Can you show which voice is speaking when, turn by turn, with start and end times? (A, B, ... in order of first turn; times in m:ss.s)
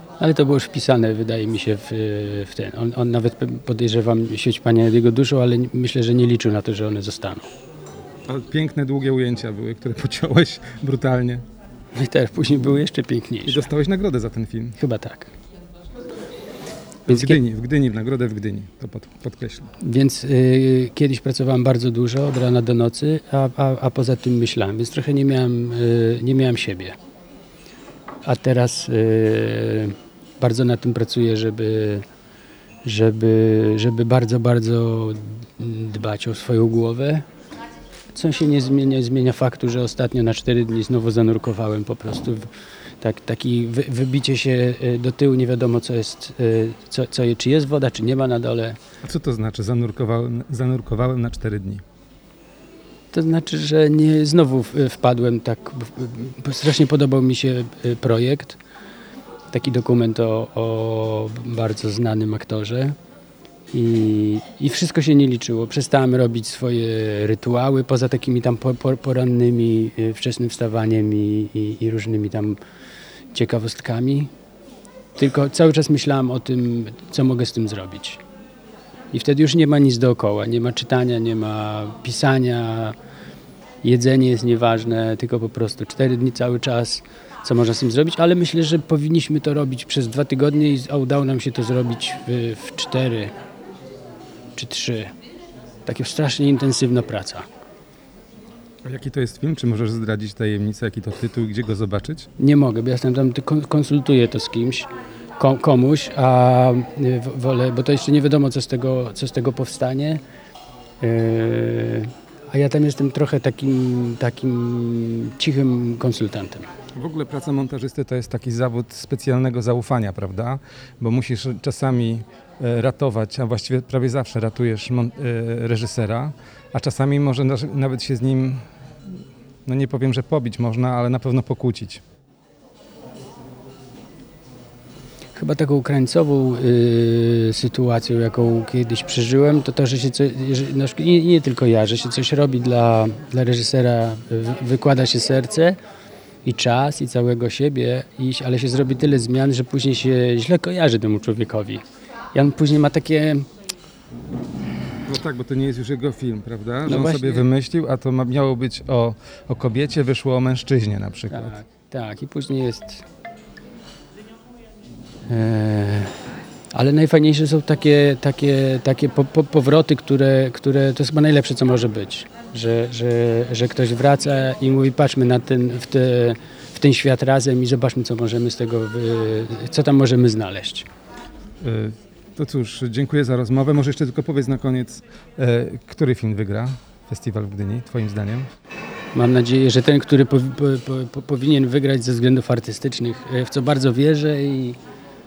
0:00.2-0:07.4 A
0:08.3-0:11.4 B
0:11.9-0:13.7 A
0:13.4-0:14.8 B
0:14.8-0:15.3 A
0:17.0-0:19.7 B
0:17.1-0:17.4 A
0:19.8-0:26.9 A
0:28.2-0:32.0 A
0:32.8-0:37.2 A
0:38.1-0:42.5 A
0:43.0-0:48.8 A
0:49.0-0:51.8 B
0:53.1-0:58.6 A
0:59.5-1:03.0 A
1:03.7-1:12.6 A
1:13.3-1:14.3 A
1:15.2-1:18.2 A
1:19.1-1:23.0 A
1:23.8-1:33.3 A
1:34.5-1:35.1 A
1:35.8-1:37.4 A
1:38.8-1:42.3 B
1:42.4-1:50.2 A
1:51.0-1:56.7 A
1:56.9-2:08.6 B
2:09.6-2:12.0 B
2:15.3-2:25.8 A
2:26.4-2:31.8 A
2:32.3-2:33.5 A
2:35.0-2:41.6 B
2:36.8-2:37.4 A
2:41.3-2:43.0 A
2:45.3-2:46.2 A
2:46.7-3:00.9 A
3:01.6-3:08.5 B
3:09.1-3:14.8 A